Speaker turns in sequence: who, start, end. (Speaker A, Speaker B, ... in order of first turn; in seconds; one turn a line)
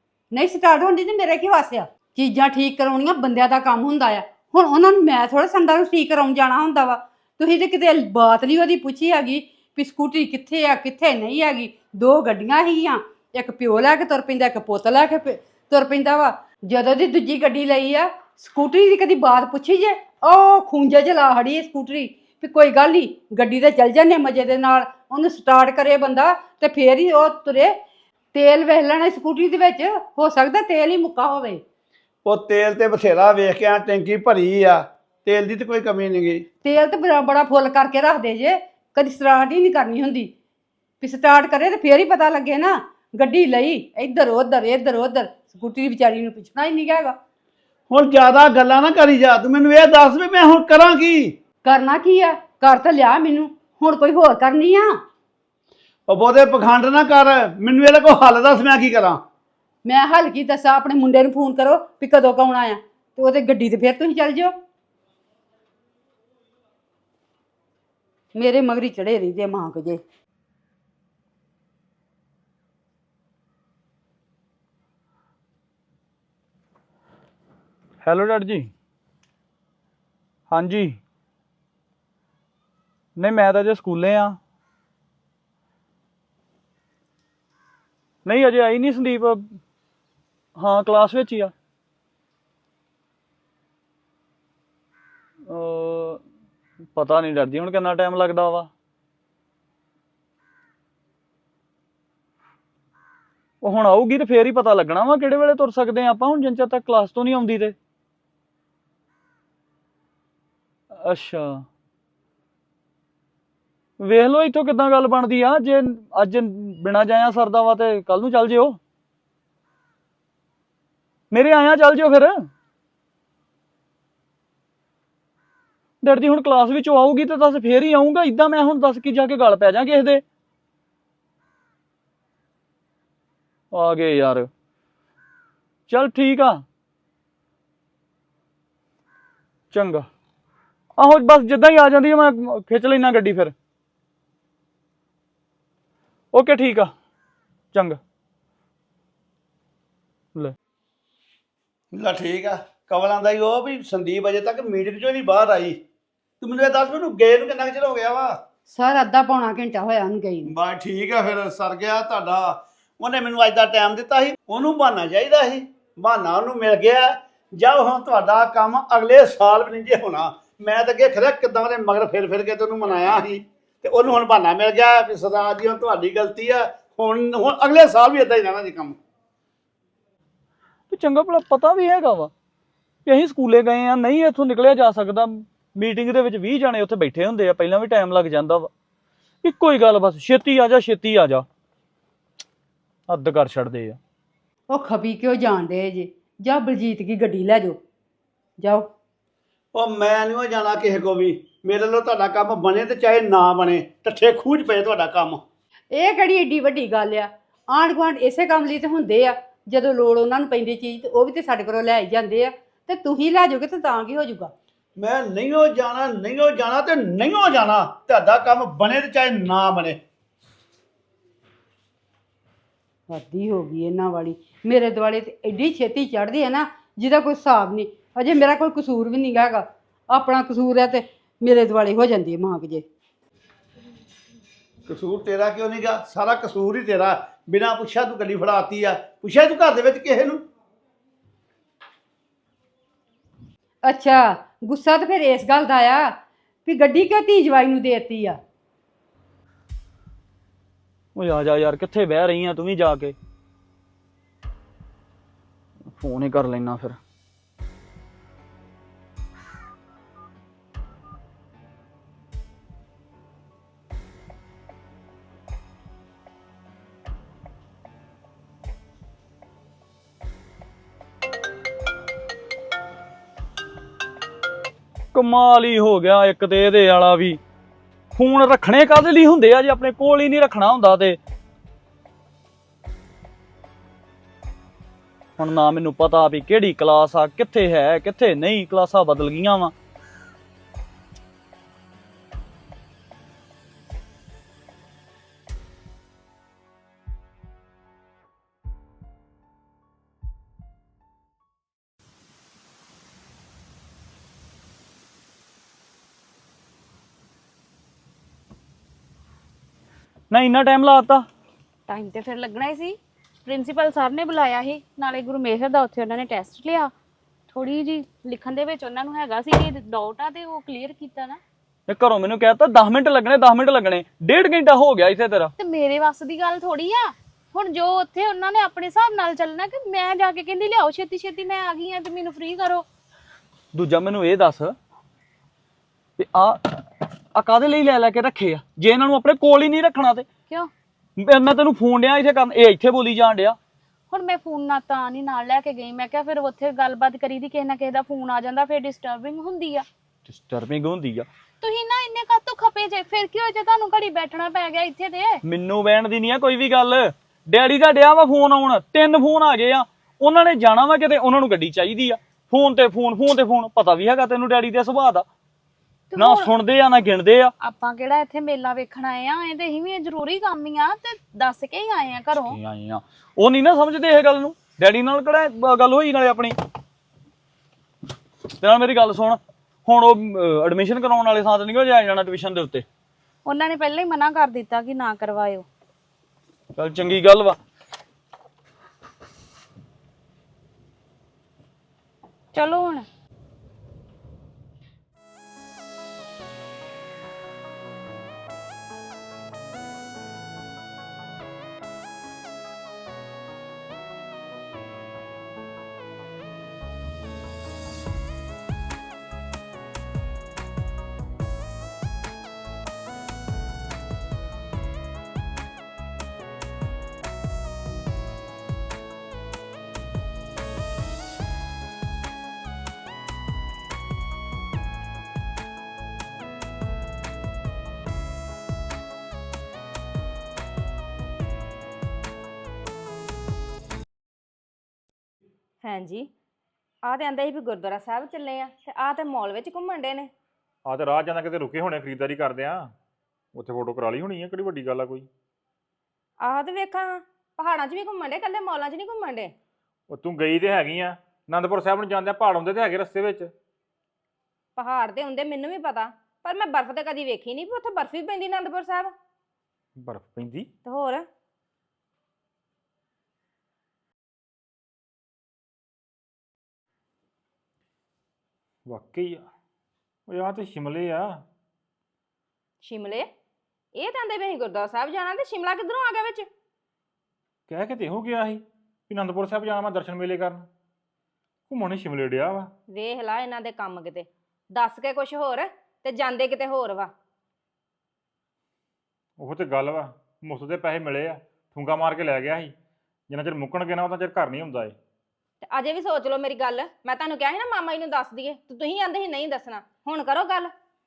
Speaker A: 0.3-27.8
Speaker A: 28.3-31.6
Speaker B: 32.2-36.5
Speaker A: 36.6-40.3
Speaker A: 41.0-47.2
Speaker B: 47.9-51.4
Speaker A: 51.6-55.0
Speaker B: 56.1-59.2
Speaker A: 59.9-64.5
Speaker A: 68.3-70.0
Speaker C: 78.0-78.7
Speaker C: 80.5-81.0
Speaker C: 83.2-84.4
Speaker C: 88.2-89.6
Speaker C: 90.6-91.5
Speaker C: 95.5-96.2
Speaker C: 97.0-98.7
Speaker C: 103.6-107.8
Speaker C: 110.9-111.7
Speaker C: 114.0-118.8
Speaker C: 121.3-122.5
Speaker C: 126.0-130.2
Speaker C: 133.7-134.5
Speaker C: 135.9-136.7
Speaker C: 139.7-140.1
Speaker C: 141.0-143.5
Speaker C: 146.3-146.9
Speaker C: 147.7-148.0
Speaker B: 151.9-155.8
Speaker B: 156.4-158.4
Speaker A: 158.7-160.5
Speaker B: 160.5-179.0
Speaker C: 180.9-182.3
Speaker C: 183.1-188.7
Speaker C: 189.4-191.5
Speaker C: 193.1-194.0
Speaker A: 194.7-197.8
Speaker A: 198.6-198.9
Speaker B: 199.7-205.4
Speaker A: 205.9-214.5
Speaker B: 215.0-220.0
Speaker A: 223.1-232.8
Speaker B: 234.9-240.4
Speaker A: 243.8-248.4
Speaker C: 251.2-253.2
Speaker C: 255.9-257.0
Speaker C: 275.1-277.4
Speaker C: 278.2-281.2
Speaker C: 285.4-289.7
Speaker C: 310.3-311.3
Speaker D: 311.9-316.9
Speaker D: 317.5-321.4
Speaker C: 321.9-325.5
Speaker D: 325.6-332.9
Speaker C: 333.7-334.8
Speaker C: 336.2-340.3
Speaker C: 341.2-343.6
Speaker D: 344.1-349.9
Speaker C: 350.3-351.3
Speaker D: 351.6-355.4
Speaker C: 355.4-365.3
Speaker D: 366.1-366.5
Speaker C: 366.2-367.5
Speaker D: 367.6-372.6
Speaker C: 372.5-376.6
Speaker C: 378.6-382.9
Speaker D: 383.4-385.7
Speaker C: 386.8-387.6
Speaker D: 392.5-393.1
Speaker E: 435.8-436.3
Speaker E: 437.0-440.3
Speaker F: 440.9-442.9
Speaker F: 443.5-445.3
Speaker E: 446.4-449.5
Speaker F: 450.1-453.5
Speaker E: 454.8-459.1
Speaker F: 460.0-460.7
Speaker E: 460.9-461.3
Speaker F: 468.9-469.5
Speaker F: 470.3-471.4
Speaker E: 472.8-473.3
Speaker E: 473.9-476.5
Speaker F: 477.7-480.7
Speaker F: 481.7-482.7
Speaker E: 482.9-487.1
Speaker F: 489.4-492.7
Speaker F: 493.3-495.0
Speaker E: 495.6-500.7